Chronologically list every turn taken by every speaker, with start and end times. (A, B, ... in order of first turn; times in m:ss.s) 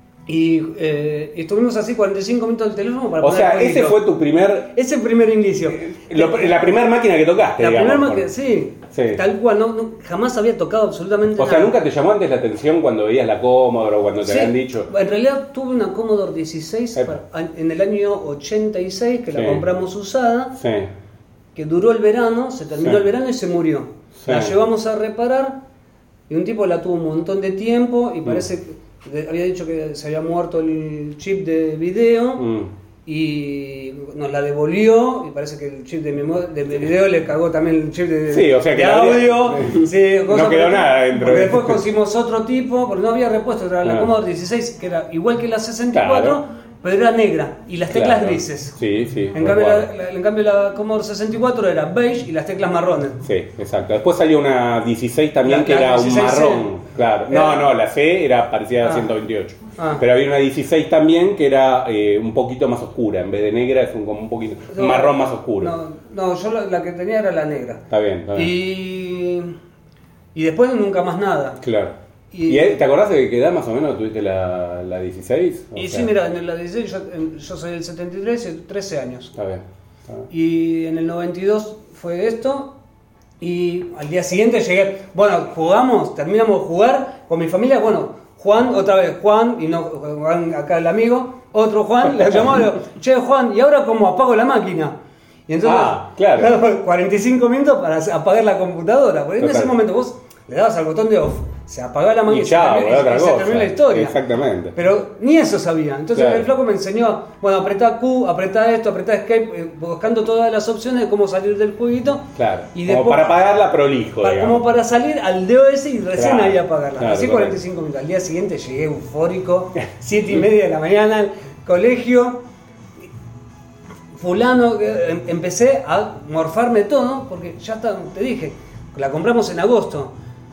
0:00.3-0:04.0 A
0:03.2-0:04.7 B
0:04.7-0:06.6 A
0:05.7-0:08.2 B
0:07.6-0:11.7 A
0:08.9-0:09.2 B
0:11.4-0:14.9 B
0:14.2-0:20.6 A
0:19.3-0:19.6 B
0:20.6-0:20.9 B
0:21.5-0:25.6 A
0:24.2-0:24.5 B
0:26.3-0:32.4 A
0:32.4-0:32.7 B
0:33.0-0:48.7 A
0:38.3-0:41.8 B
0:43.8-0:44.1 B
0:45.9-0:46.4 B
0:47.9-0:49.9 B
0:49.3-0:53.2 A
0:53.2-1:05.7 B
0:55.4-0:56.7 A
0:57.3-0:57.6 A
0:58.8-0:59.1 A
0:59.8-1:00.0 A
1:04.7-1:07.8 A
1:07.9-1:08.5 B
1:08.3-1:09.5 A
1:10.3-1:11.6 A
1:11.6-1:11.9 B
1:12.3-1:12.8 A
1:12.5-1:16.1 B
1:15.7-1:19.3 A
1:19.4-1:20.3 B
1:20.3-1:22.7 A
1:23.4-1:34.9 A
1:35.5-1:44.2 A
1:35.6-1:36.6 B
1:39.4-1:39.7 B
1:42.3-1:44.7 B
1:44.7-1:53.4 A
1:46.1-1:46.5 B
1:52.4-1:54.6 B
1:54.2-2:02.4 A
1:56.2-1:57.6 B
2:04.1-2:10.1 A